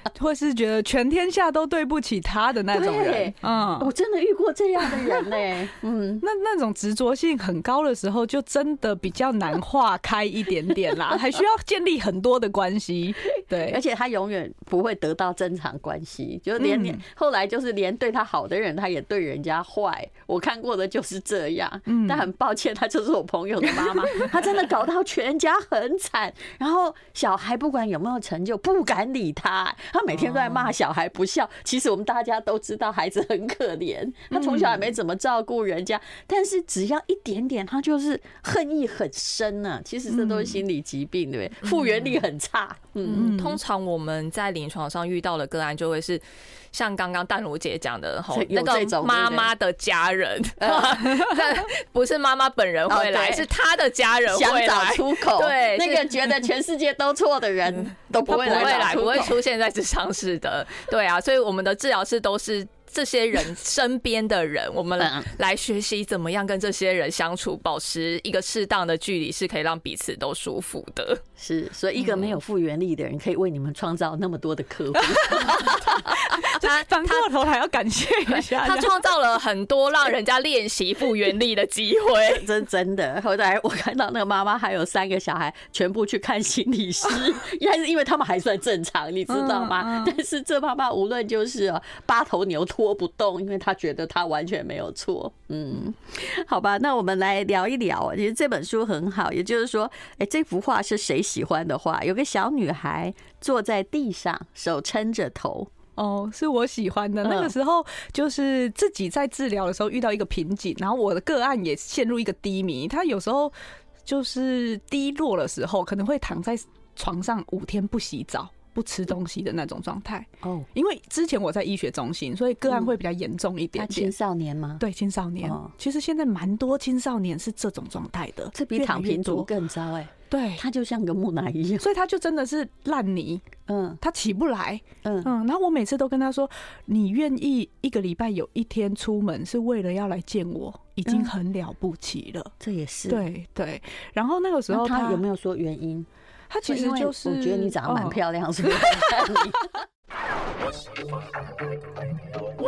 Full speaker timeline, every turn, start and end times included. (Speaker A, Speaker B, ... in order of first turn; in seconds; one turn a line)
Speaker A: 0.1-3.9
Speaker B: 2.7-6.2
Speaker A: 6.2-13.8
Speaker B: 13.4-43.3
Speaker A: 16.6-17.0
Speaker A: 21.9-22.3
Speaker A: 23.6-24.3
Speaker C: 30.2-30.6
Speaker A: 34.3-34.8
Speaker A: 40.1-40.6
Speaker C: 41.6-42.2
Speaker A: 43.1-43.6
Speaker C: 43.1-56.5
Speaker B: 48.3-49.5
Speaker B: 50.6-51.4
Speaker B: 52.9-53.5
Speaker B: 54.3-59.3
Speaker A: 58.3-59.3
Speaker C: 58.3-71.2
Speaker B: 65.0-65.3
Speaker B: 71.4-76.6
Speaker C: 72.0-72.4
Speaker A: 75.3-79.0
Speaker C: 78.3-82.5
Speaker B: 82.3-105.7
Speaker A: 89.3-90.2
Speaker A: 106.0-113.5
Speaker B: 107.2-107.5
Speaker A: 114.0-124.1
Speaker B: 120.4-120.7
Speaker B: 122.7-123.0
Speaker B: 123.8-124.8
Speaker A: 124.8-129.5
Speaker B: 125.4-125.7
Speaker B: 128.5-131.9
Speaker A: 130.3-130.6
Speaker A: 131.8-133.5
Speaker B: 133.7-134.0
Speaker A: 134.0-142.5
Speaker B: 135.0-135.3
Speaker B: 141.1-141.3
Speaker B: 142.6-143.2
Speaker A: 143.1-145.2
Speaker B: 144.7-146.1
Speaker A: 146.5-149.4
Speaker B: 146.6-149.8